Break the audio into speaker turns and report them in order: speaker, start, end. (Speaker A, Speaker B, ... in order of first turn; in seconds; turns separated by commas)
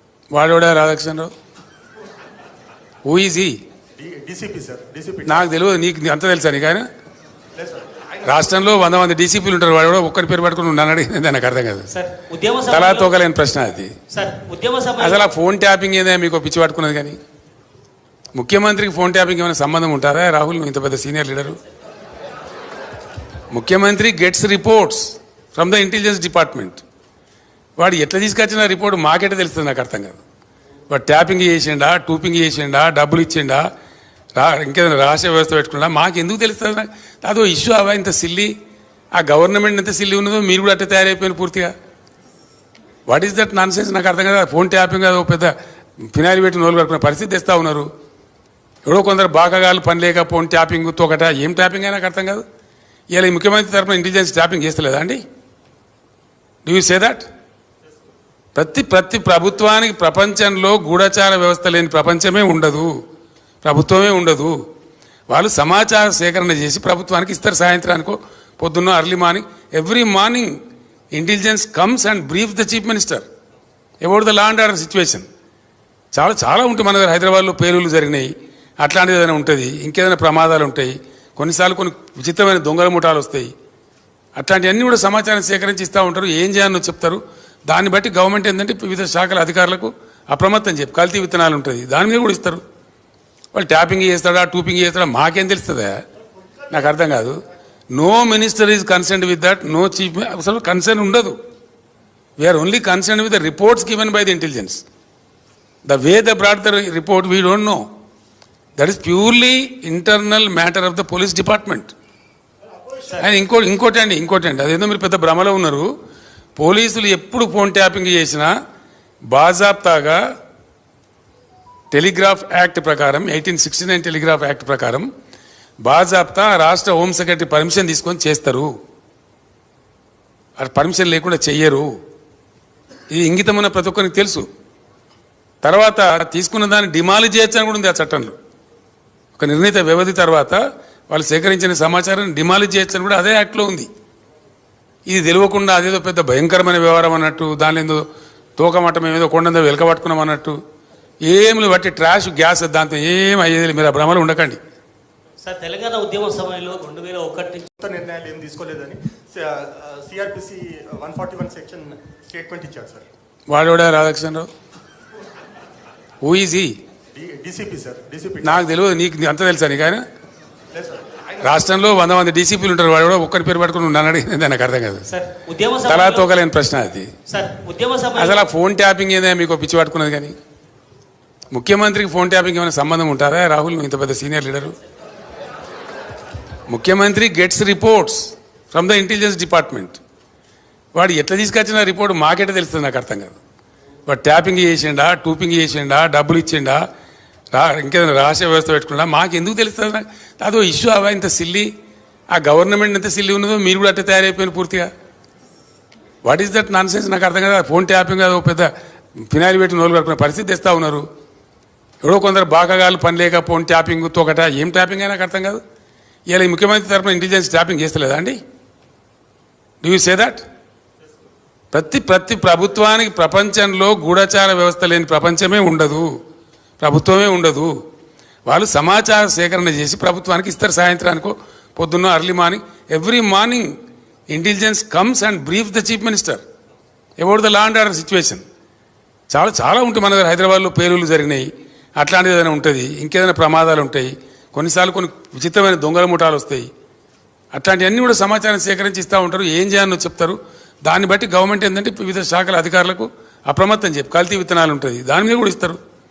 Speaker A: 0.3-1.3, Speaker A: 3.0-3.6, Speaker B: 4.0-5.5, Speaker A: 5.2-6.9, Speaker B: 7.5-8.5, Speaker A: 8.2-11.9, Speaker C: 11.9-13.1, Speaker A: 12.7-13.9, Speaker C: 14.1-15.3, Speaker A: 15.0-17.2, Speaker A: 18.3-21.6, Speaker A: 23.5-26.8, Speaker A: 27.8-30.2, Speaker A: 30.9-33.7, Speaker A: 34.4-38.5, Speaker A: 39.1-41.7, Speaker A: 43.1-45.5, Speaker A: 46.1-47.9, Speaker A: 48.8-52.4, Speaker A: 53.1-55.2, Speaker A: 56.6-57.3, Speaker A: 58.5-62.9, Speaker A: 63.6-64.5, Speaker A: 65.3-70.5, Speaker A: 71.1-73.2, Speaker A: 74.0-75.2, Speaker A: 76.1-83.5, Speaker A: 84.3-92.6, Speaker A: 93.5-96.0, Speaker A: 96.7-97.4, Speaker A: 97.9-101.4, Speaker A: 102.4-104.8, Speaker A: 105.8-107.8, Speaker A: 108.8-111.9, Speaker A: 113.1-115.9, Speaker A: 116.6-118.5, Speaker A: 119.3-120.2, Speaker A: 121.9-125.1, Speaker A: 125.8-128.7, Speaker A: 130.6-131.9, Speaker A: 133.1-134.5, Speaker A: 135.6-138.3, Speaker A: 139.3-143.9, Speaker A: 145.1-148.0, Speaker A: 148.6-150.6, Speaker A: 151.2-154.6, Speaker C: 155.4-157.7, Speaker B: 157.8-163.1, Speaker A: 163.5-164.5, Speaker A: 166.2-166.7, Speaker B: 167.1-168.7, Speaker A: 168.4-170.0, Speaker B: 170.7-171.6, Speaker A: 171.4-175.1, Speaker C: 175.1-176.3, Speaker A: 175.8-177.1, Speaker C: 177.3-178.5, Speaker A: 178.2-180.3, Speaker A: 181.5-184.7, Speaker A: 186.7-190.0, Speaker A: 190.9-193.4, Speaker A: 194.1-196.8, Speaker A: 197.5-201.7, Speaker A: 202.3-204.9, Speaker A: 206.2-211.1, Speaker A: 212.0-215.6, Speaker A: 216.3-218.4, Speaker A: 219.8-220.4, Speaker A: 221.7-226.1, Speaker A: 226.8-227.7, Speaker A: 228.4-233.7, Speaker A: 234.3-236.4, Speaker A: 237.2-238.4, Speaker A: 239.3-246.7, Speaker A: 247.5-255.8